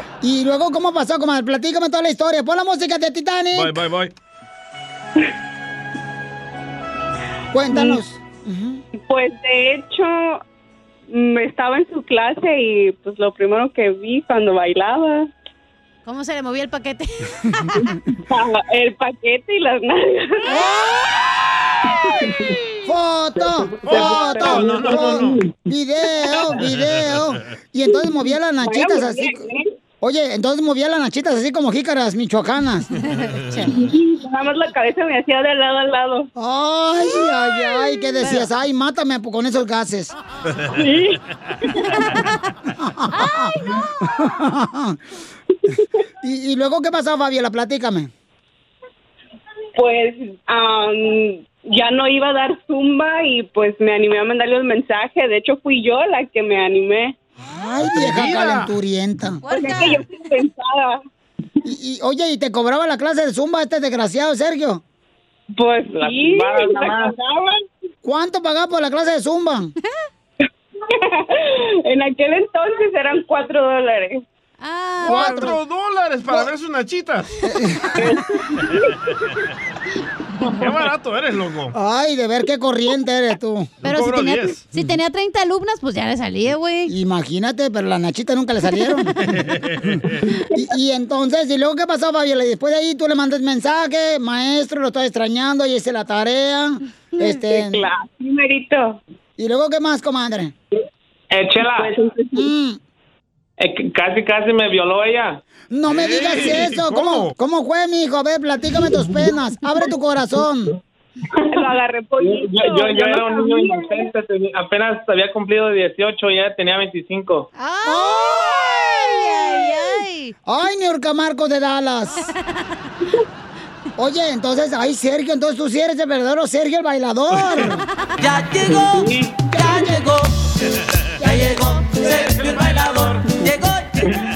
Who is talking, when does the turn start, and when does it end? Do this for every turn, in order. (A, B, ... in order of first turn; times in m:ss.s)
0:00.2-0:03.7 A
0:03.5-0:04.1 B
0:07.5-0:08.8 A
0:09.0-0:10.4 C
0:11.1-0:15.3 C
0:16.0-0:17.4 D
0:17.8-0:20.6 C
0:20.5-0:21.1 A
0:22.8-0:29.5 A
0:23.8-0:25.4 B
0:23.9-0:25.2 C
0:26.7-0:27.2 B
0:28.2-0:29.7 C
0:30.0-0:32.9 A
0:33.1-0:33.7 D
0:33.7-0:36.3 C
0:36.4-0:40.1 A
0:38.2-0:38.5 D
0:40.7-0:41.2 C
0:42.8-0:45.0 A
0:46.2-0:48.1 A
0:49.8-0:57.2 C
0:57.5-0:59.4 A
0:57.8-0:58.7 B
0:59.4-1:00.0 D
0:59.5-1:01.0 C
1:01.6-1:04.8 A
1:05.6-1:07.6 C
1:05.9-1:07.2 E
1:08.0-1:09.7 A
1:10.9-1:14.2 C
1:14.6-1:15.5 D
1:15.0-1:15.6 A
1:15.1-1:17.3 B
1:17.4-1:18.2 A
1:20.5-1:21.8 B
1:21.7-1:23.7 A
1:23.8-1:24.6 B
1:23.8-1:26.9 D
1:26.9-1:29.1 A
1:29.3-1:30.2 B
1:30.5-1:37.9 A
1:37.2-1:39.0 C
1:39.4-1:40.5 A
1:41.3-1:42.0 E
1:41.8-1:42.5 C
1:42.3-1:42.8 A
1:43.6-1:45.4 E
1:45.7-1:50.7 A
1:45.9-1:47.3 B
1:51.4-1:54.1 C
1:52.2-1:57.5 E
1:57.6-2:00.4 D
1:57.8-1:59.8 A
2:00.5-2:02.3 A
2:04.0-2:07.8 A
2:08.2-2:10.4 F
2:09.0-2:09.3 E
2:09.6-2:10.0 A
2:11.2-2:14.1 F